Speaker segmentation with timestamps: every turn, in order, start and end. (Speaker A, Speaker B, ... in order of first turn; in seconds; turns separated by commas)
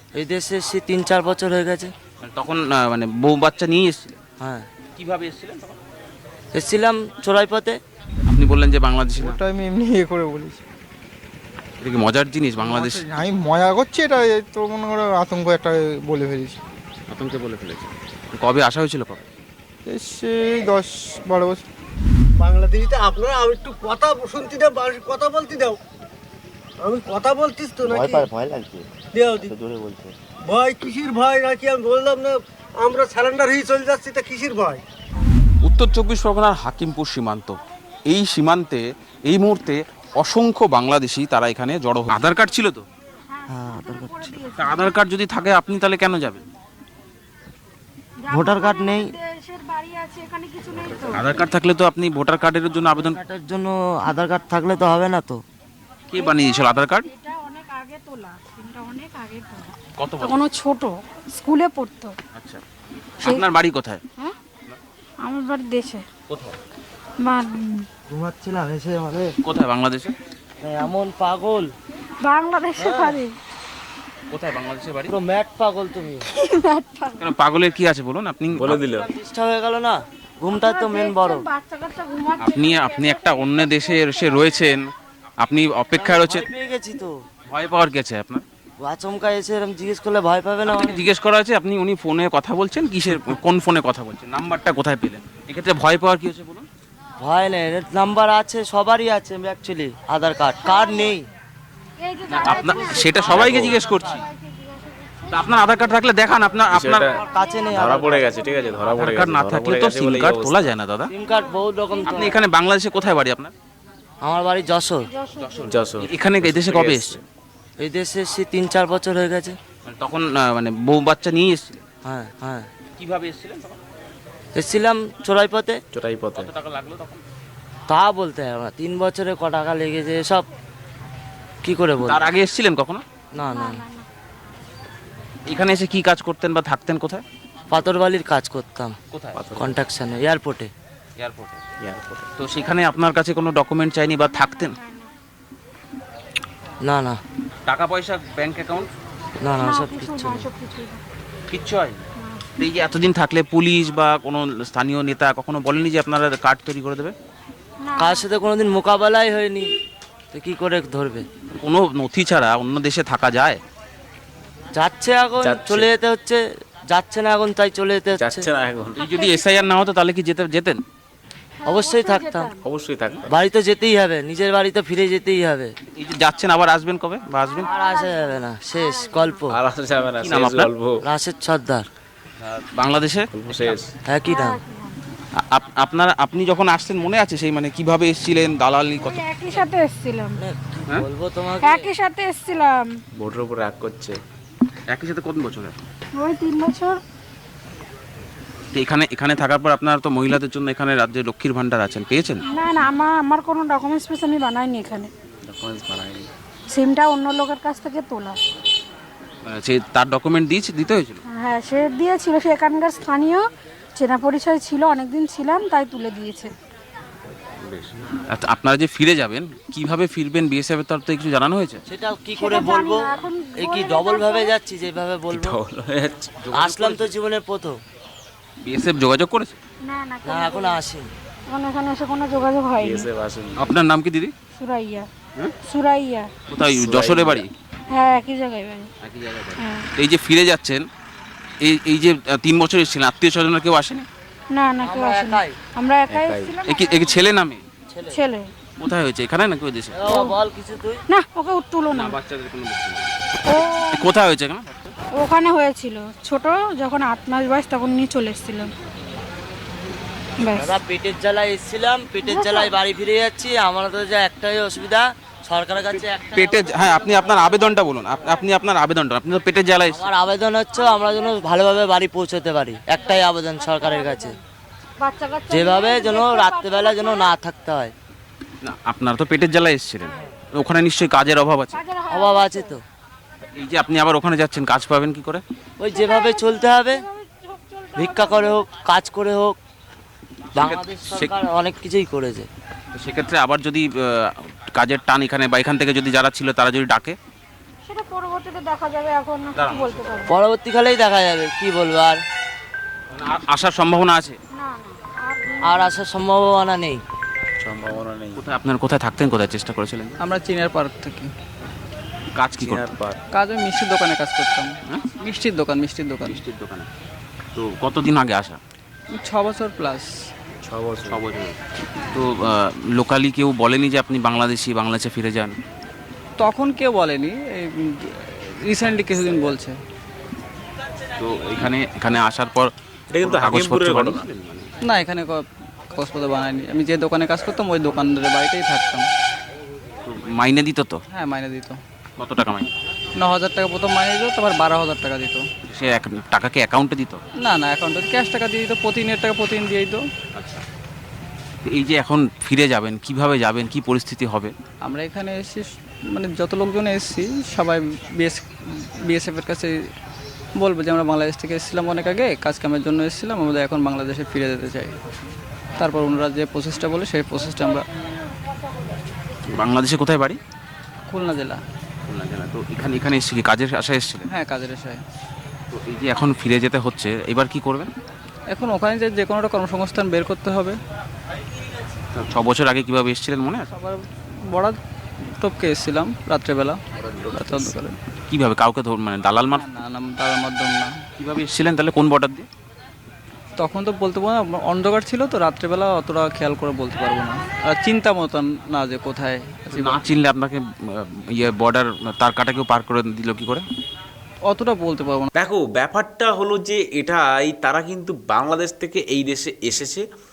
Speaker A: 0.1-1.9, Speaker B: 2.2-4.2, Speaker A: 4.4-4.7, Speaker B: 5.0-5.8, Speaker A: 6.5-7.8, Speaker B: 8.3-9.4, Speaker C: 9.2-10.7, Speaker B: 11.8-13.1, Speaker C: 12.6-16.6, Speaker B: 17.1-19.2, Speaker C: 19.9-21.6, Speaker D: 22.4-25.8, Speaker D: 26.8-28.3, Speaker A: 27.9-28.8, Speaker D: 29.1-29.6, Speaker A: 29.5-30.1, Speaker D: 30.5-34.8, Speaker B: 35.6-42.9, Speaker E: 43.3-45.0, Speaker A: 43.5-44.1, Speaker B: 44.5-46.4, Speaker E: 48.2-51.4, Speaker A: 48.3-49.1, Speaker B: 51.1-53.2, Speaker A: 52.9-55.4, Speaker B: 56.1-57.1, Speaker E: 56.1-62.1, Speaker B: 60.0-60.4, Speaker B: 62.4-62.6, Speaker B: 63.2-64.0, Speaker E: 65.2-66.0, Speaker B: 66.3-66.6, Speaker E: 67.2-67.9, Speaker A: 68.1-69.3, Speaker B: 69.4-70.2, Speaker A: 70.6-71.7, Speaker E: 72.2-73.3, Speaker A: 72.8-73.1, Speaker B: 74.3-75.1, Speaker A: 75.1-76.3, Speaker E: 76.3-77.3, Speaker B: 77.2-78.8, Speaker F: 78.5-79.1, Speaker A: 78.9-81.4, Speaker E: 80.5-84.7, Speaker B: 82.4-86.5, Speaker A: 86.0-87.2, Speaker B: 87.5-88.4, Speaker A: 88.8-91.0, Speaker B: 90.7-96.7, Speaker A: 97.2-101.2, Speaker E: 100.7-101.2, Speaker E: 102.0-103.3, Speaker B: 102.3-104.3, Speaker A: 102.5-104.0, Speaker F: 103.3-103.8, Speaker E: 104.2-105.5, Speaker B: 105.3-107.1, Speaker F: 106.7-107.2, Speaker E: 107.1-108.9, Speaker A: 107.2-108.3, Speaker F: 107.7-110.7, Speaker B: 108.9-111.1, Speaker A: 111.1-112.4, Speaker E: 111.3-112.3, Speaker B: 112.1-113.5, Speaker A: 114.2-115.1, Speaker E: 115.1-115.8, Speaker B: 115.4-117.2, Speaker F: 115.7-117.2, Speaker A: 117.8-119.6, Speaker B: 119.8-121.8, Speaker A: 122.0-122.7, Speaker B: 123.0-123.8, Speaker A: 124.5-125.8, Speaker F: 125.9-126.5, Speaker B: 126.4-127.2, Speaker A: 127.9-130.5, Speaker A: 131.6-132.3, Speaker B: 132.0-133.0, Speaker A: 133.3-133.8, Speaker E: 133.5-134.1, Speaker B: 135.5-137.2, Speaker A: 137.7-138.9, Speaker B: 139.1-139.4, Speaker F: 139.3-139.8, Speaker A: 139.6-140.7, Speaker B: 141.2-141.6, Speaker F: 141.8-142.3, Speaker B: 142.4-144.8, Speaker E: 144.3-145.1, Speaker A: 146.8-147.2, Speaker B: 147.7-148.9, Speaker A: 149.4-150.5, Speaker E: 149.6-151.0, Speaker B: 151.5-152.0, Speaker E: 152.2-152.4, Speaker B: 152.6-157.1, Speaker E: 157.8-158.3, Speaker A: 158.0-159.7, Speaker A: 160.3-161.2, Speaker B: 161.6-163.6, Speaker A: 164.8-166.4, Speaker F: 165.4-165.9, Speaker A: 166.9-168.4, Speaker F: 168.1-169.0, Speaker B: 169.0-170.8, Speaker E: 169.0-169.7, Speaker E: 171.6-172.6, Speaker A: 171.7-172.5, Speaker F: 172.6-173.4, Speaker A: 173.3-175.7, Speaker B: 175.9-177.7, Speaker E: 177.4-179.4, Speaker A: 177.7-179.6, Speaker F: 179.5-181.0, Speaker B: 180.2-180.7, Speaker A: 181.0-181.9, Speaker B: 182.4-183.8, Speaker F: 183.3-183.9, Speaker A: 184.1-184.6, Speaker E: 184.3-185.0, Speaker B: 185.4-189.2, Speaker E: 189.0-190.4, Speaker A: 190.4-191.9, Speaker E: 191.6-192.9, Speaker F: 193.2-194.2, Speaker B: 194.9-195.8, Speaker E: 196.1-197.0, Speaker B: 198.7-202.4, Speaker E: 202.4-205.1, Speaker F: 205.5-206.3, Speaker E: 206.7-208.4, Speaker B: 209.5-211.2, Speaker E: 211.2-213.4, Speaker E: 214.0-216.5, Speaker B: 217.7-221.8, Speaker A: 221.9-225.6, Speaker E: 222.4-224.5, Speaker F: 225.3-226.4, Speaker B: 226.4-227.1, Speaker A: 226.5-227.8, Speaker B: 228.6-229.6, Speaker E: 229.8-230.8, Speaker A: 230.2-231.1, Speaker E: 231.5-233.1, Speaker F: 232.8-233.8, Speaker B: 233.6-234.3, Speaker E: 234.6-235.1, Speaker E: 235.6-236.3, Speaker B: 236.5-237.5, Speaker F: 236.7-237.5, Speaker E: 237.9-238.9, Speaker B: 239.0-240.9, Speaker E: 239.6-239.9, Speaker B: 241.6-244.1, Speaker E: 244.5-247.2, Speaker A: 244.8-245.6, Speaker F: 246.1-246.5, Speaker B: 246.7-247.6, Speaker A: 247.9-248.2, Speaker E: 248.1-248.5, Speaker B: 248.8-250.0, Speaker A: 249.9-251.0, Speaker E: 250.1-250.3, Speaker E: 251.1-252.2, Speaker B: 251.9-253.4, Speaker E: 253.4-254.2, Speaker B: 253.9-254.9, Speaker E: 255.1-258.7, Speaker E: 260.4-260.8, Speaker A: 260.6-266.8, Speaker E: 262.3-262.7, Speaker B: 266.3-270.0, Speaker A: 269.9-274.4, Speaker E: 270.9-271.2, Speaker E: 273.6-274.4, Speaker E: 275.0-277.3, Speaker A: 275.5-277.9, Speaker B: 278.6-281.8, Speaker E: 281.7-282.8, Speaker A: 282.1-282.8, Speaker B: 283.6-285.4, Speaker A: 285.8-287.0, Speaker E: 285.9-288.6, Speaker A: 288.0-289.6, Speaker B: 290.6-291.4, Speaker A: 290.6-292.5, Speaker B: 292.9-297.2, Speaker E: 297.9-300.4, Speaker B: 299.6-300.2, Speaker A: 300.3-302.2, Speaker B: 303.1-304.4, Speaker E: 304.5-305.9, Speaker A: 305.6-307.0, Speaker F: 307.6-308.4, Speaker B: 308.4-310.2, Speaker G: 310.2-311.3, Speaker B: 312.4-312.8, Speaker F: 312.6-313.2, Speaker G: 313.3-316.4, Speaker B: 316.2-316.9, Speaker B: 317.6-318.6, Speaker G: 319.1-320.1, Speaker F: 320.6-321.2, Speaker B: 321.1-321.6, Speaker B: 322.1-325.6, Speaker G: 326.4-329.8, Speaker B: 331.2-332.7, Speaker F: 333.1-334.3, Speaker B: 333.2-334.7, Speaker G: 334.8-339.1, Speaker B: 340.0-341.0, Speaker G: 341.1-341.8, Speaker B: 342.2-342.7, Speaker G: 343.2-345.4, Speaker B: 345.7-347.2, Speaker G: 347.4-350.0, Speaker B: 350.4-350.6, Speaker B: 351.6-354.5, Speaker G: 354.9-359.7, Speaker G: 360.6-365.0, Speaker G: 365.8-367.8, Speaker B: 369.5-370.4, Speaker G: 371.1-371.6, Speaker B: 372.1-374.3, Speaker G: 374.3-375.0, Speaker B: 375.7-377.9, Speaker G: 378.5-380.8, Speaker B: 382.1-383.7, Speaker G: 383.7-384.8, Speaker G: 385.4-386.8, Speaker F: 387.0-387.5, Speaker G: 387.3-388.0, Speaker B: 388.3-389.6, Speaker G: 389.5-391.0, Speaker B: 391.2-392.5, Speaker G: 393.6-400.0, Speaker B: 399.7-400.6, Speaker B: 401.3-403.6, Speaker G: 404.5-405.3, Speaker F: 405.4-410.1